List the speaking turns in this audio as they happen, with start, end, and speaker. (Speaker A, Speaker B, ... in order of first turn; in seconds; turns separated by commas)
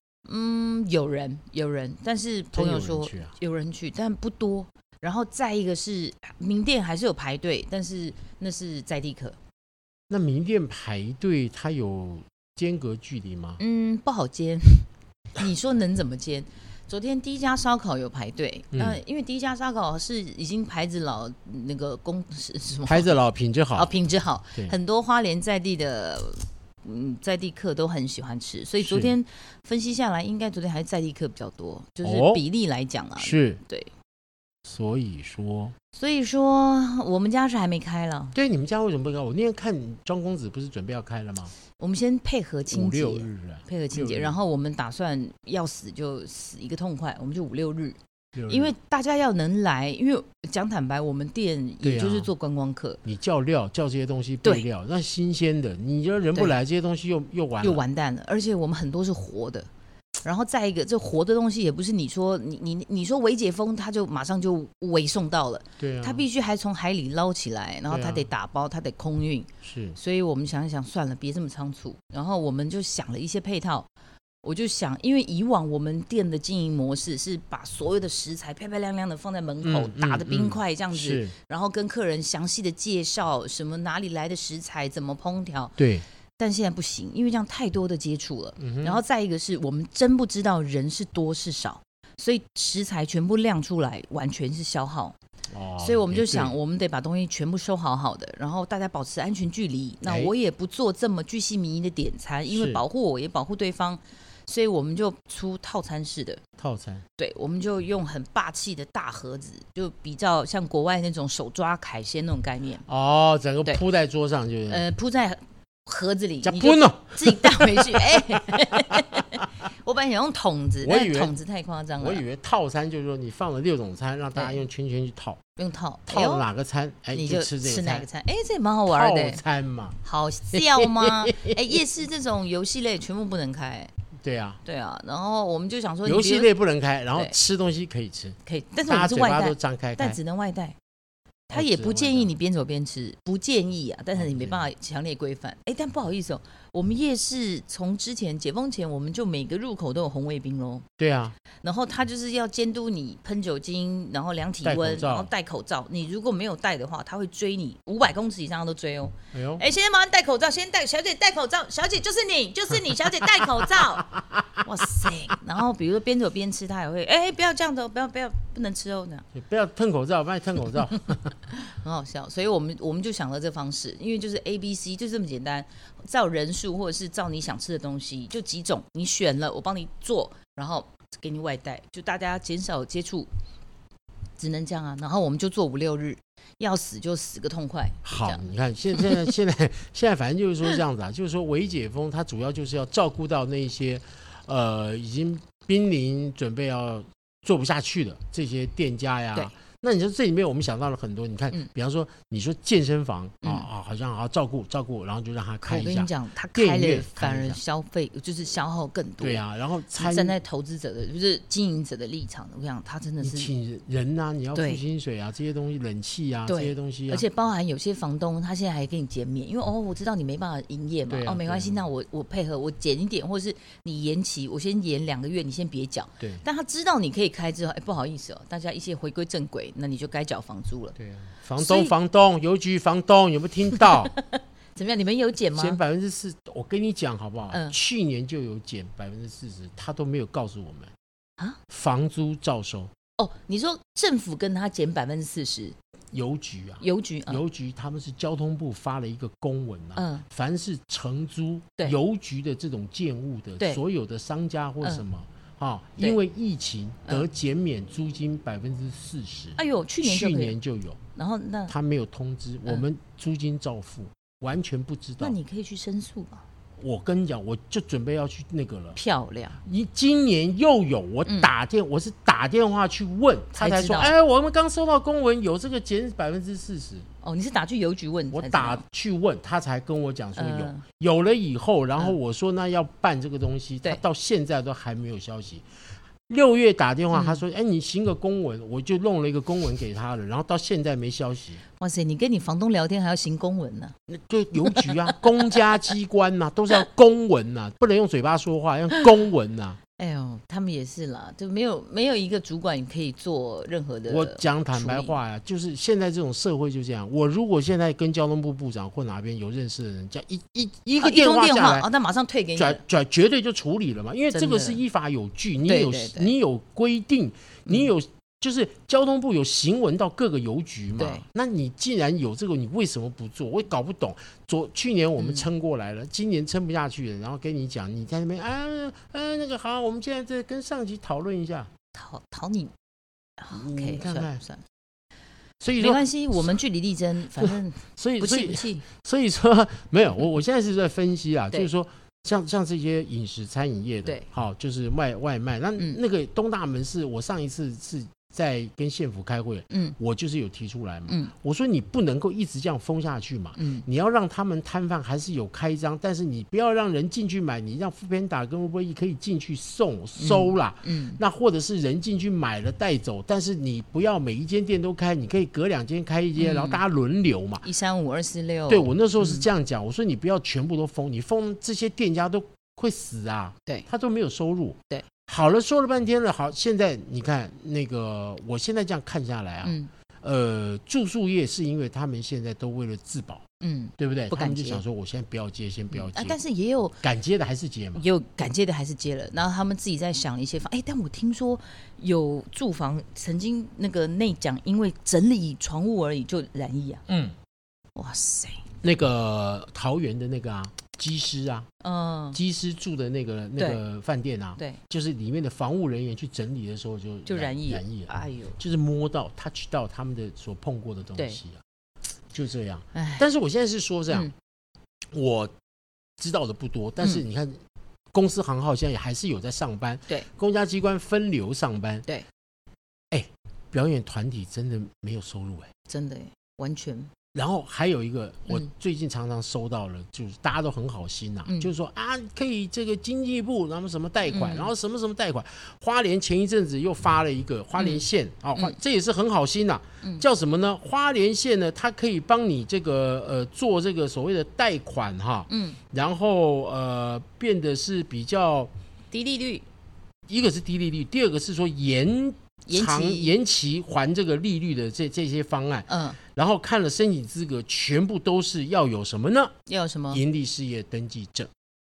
Speaker A: 0.2-9.4, Speaker B: 2.5-3.3, Speaker B: 10.1-13.6, Speaker A: 13.6-23.1, Speaker B: 18.7-19.0, Speaker B: 22.8-23.9, Speaker A: 23.7-33.9, Speaker B: 28.8-29.1, Speaker B: 32.0-32.4, Speaker B: 33.2-33.6, Speaker B: 34.6-35.7, Speaker A: 35.9-38.4, Speaker B: 38.3-41.5, Speaker A: 41.8-53.0, Speaker B: 42.7-44.4, Speaker B: 48.3-48.7, Speaker B: 51.8-52.3, Speaker B: 53.0-57.8, Speaker A: 57.6-59.7, Speaker A: 60.2-73.9, Speaker B: 65.8-66.2, Speaker B: 67.9-68.3, Speaker B: 69.6-70.0, Speaker A: 74.4-85.8, Speaker B: 79.6-81.3, Speaker B: 85.8-86.0, Speaker A: 86.4-95.2, Speaker B: 88.6-89.0, Speaker B: 95.5-96.5, Speaker A: 95.8-106.4, Speaker B: 100.0-100.3, Speaker B: 102.5-102.8, Speaker B: 106.6-107.0, Speaker A: 107.2-112.8, Speaker B: 112.9-114.8, Speaker A: 114.7-122.2, Speaker B: 116.4-119.4, Speaker B: 120.8-121.3, Speaker B: 122.0-125.4, Speaker A: 124.3-124.6, Speaker A: 125.6-126.5, Speaker B: 126.1-128.1, Speaker A: 127.1-129.4, Speaker B: 128.9-130.0, Speaker A: 130.0-133.9, Speaker B: 130.5-131.8, Speaker B: 134.2-134.6, Speaker A: 134.6-136.5, Speaker B: 136.0-140.2, Speaker A: 138.4-140.8, Speaker B: 141.5-142.3, Speaker A: 141.5-150.8, Speaker B: 144.1-144.7, Speaker B: 151.0-151.3, Speaker A: 151.6-169.3, Speaker B: 154.6-155.3, Speaker B: 159.3-159.6, Speaker B: 163.8-164.6, Speaker B: 169.3-171.3, Speaker A: 171.5-183.3, Speaker A: 184.4-188.4, Speaker B: 188.0-207.6, Speaker A: 188.9-189.3, Speaker A: 203.4-203.7, Speaker A: 205.6-209.4, Speaker B: 209.2-210.4, Speaker A: 209.9-213.5, Speaker B: 213.2-217.2, Speaker A: 214.5-214.8, Speaker A: 216.5-231.0, Speaker B: 221.1-221.8, Speaker B: 226.2-226.4, Speaker B: 231.0-234.1, Speaker A: 231.6-231.9, Speaker A: 233.8-235.8, Speaker B: 235.5-240.9, Speaker A: 237.5-237.8, Speaker B: 241.7-242.9, Speaker A: 243.2-245.8, Speaker B: 246.1-261.0, Speaker A: 246.8-247.4, Speaker A: 249.9-250.2, Speaker A: 259.6-260.6, Speaker A: 261.1-261.7, Speaker B: 261.7-265.4, Speaker A: 265.2-266.4, Speaker B: 266.8-269.0, Speaker A: 268.9-269.6, Speaker B: 269.6-277.1, Speaker A: 273.5-274.1, Speaker A: 277.2-278.8, Speaker B: 278.3-285.6, Speaker A: 280.4-280.8, Speaker B: 286.3-291.6, Speaker A: 287.1-287.4, Speaker A: 291.8-293.9, Speaker B: 294.1-299.8, Speaker A: 294.6-295.2, Speaker A: 300.0-305.1, Speaker B: 304.1-311.9, Speaker A: 311.0-312.8, Speaker B: 312.6-331.7, Speaker A: 314.3-314.8, Speaker A: 315.6-316.3, Speaker A: 321.0-321.2, Speaker A: 325.2-325.5, Speaker A: 331.9-332.7, Speaker A: 333.4-334.6, Speaker B: 333.5-334.4, Speaker B: 335.6-336.0, Speaker A: 335.8-338.8, Speaker B: 337.4-367.6, Speaker A: 349.7-349.9, Speaker A: 353.6-353.9, Speaker A: 360.2-361.2, Speaker A: 366.4-366.8, Speaker A: 367.6-369.4, Speaker B: 368.7-383.4, Speaker A: 379.6-379.9, Speaker A: 383.6-384.8, Speaker B: 384.0-386.4, Speaker A: 385.9-387.0, Speaker B: 387.0-388.0, Speaker A: 387.9-397.0, Speaker B: 397.1-397.4, Speaker A: 397.9-398.6, Speaker B: 398.8-401.7, Speaker A: 401.8-402.4, Speaker B: 402.3-411.6, Speaker A: 407.2-408.6, Speaker B: 412.3-414.3, Speaker A: 412.9-413.2, Speaker B: 415.1-415.5, Speaker B: 416.2-417.6, Speaker B: 418.1-422.1, Speaker B: 423.1-425.7, Speaker A: 425.9-427.1, Speaker B: 427.3-448.7, Speaker A: 434.3-434.7, Speaker A: 437.8-438.0, Speaker A: 445.5-445.8, Speaker A: 449.1-449.6, Speaker B: 450.3-459.5, Speaker A: 452.7-453.3, Speaker A: 455.9-456.2, Speaker A: 459.7-460.2, Speaker B: 460.1-461.5